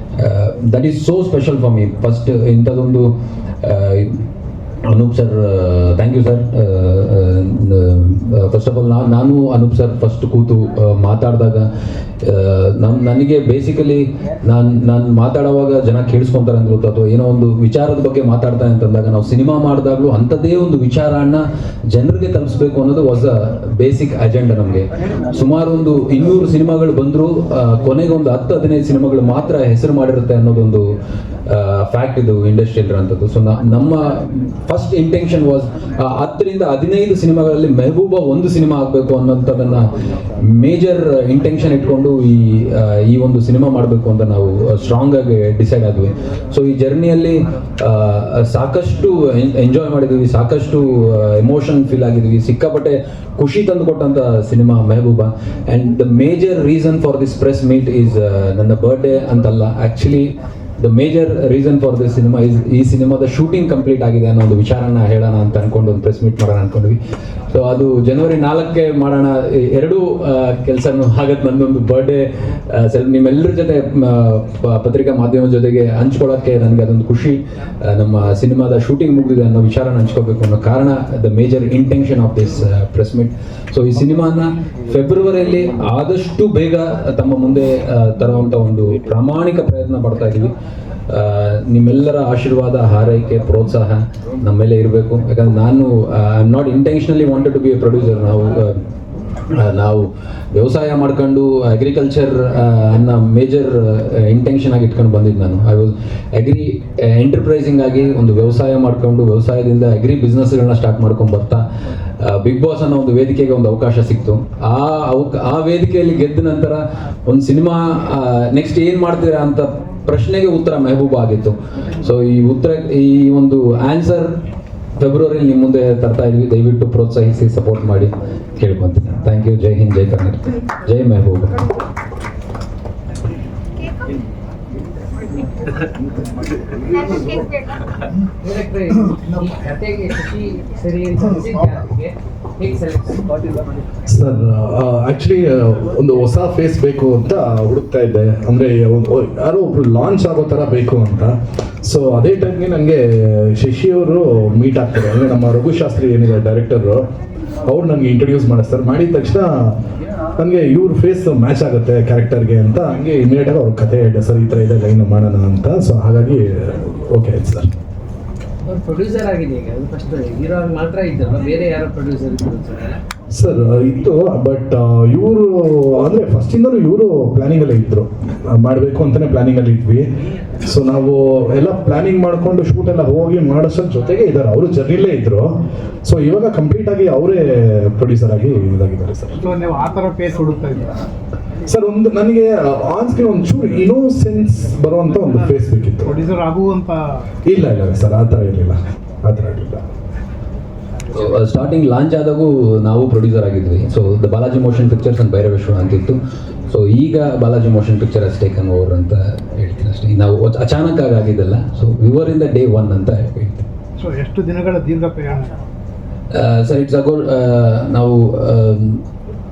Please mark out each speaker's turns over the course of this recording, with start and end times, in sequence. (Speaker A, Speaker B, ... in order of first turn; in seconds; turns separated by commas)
Speaker A: 0.2-4.2, Speaker A: 4.9-11.7, Speaker A: 12.2-30.9, Speaker A: 31.5-67.0, Speaker A: 67.5-90.5, Speaker A: 91.1-98.8, Speaker A: 99.5-111.7, Speaker A: 112.2-124.4, Speaker A: 125.0-131.6, Speaker B: 138.4-143.6, Speaker C: 144.1-157.1, Speaker C: 157.7-159.8, Speaker C: 160.4-167.7, Speaker B: 168.7-173.0, Speaker C: 173.3-180.1, Speaker C: 180.6-189.4, Speaker D: 189.4-190.9, Speaker C: 191.7-196.2, Speaker D: 196.1-197.2, Speaker C: 197.4-199.9, Speaker A: 201.1-213.7, Speaker D: 214.0-215.5, Speaker A: 216.3-219.0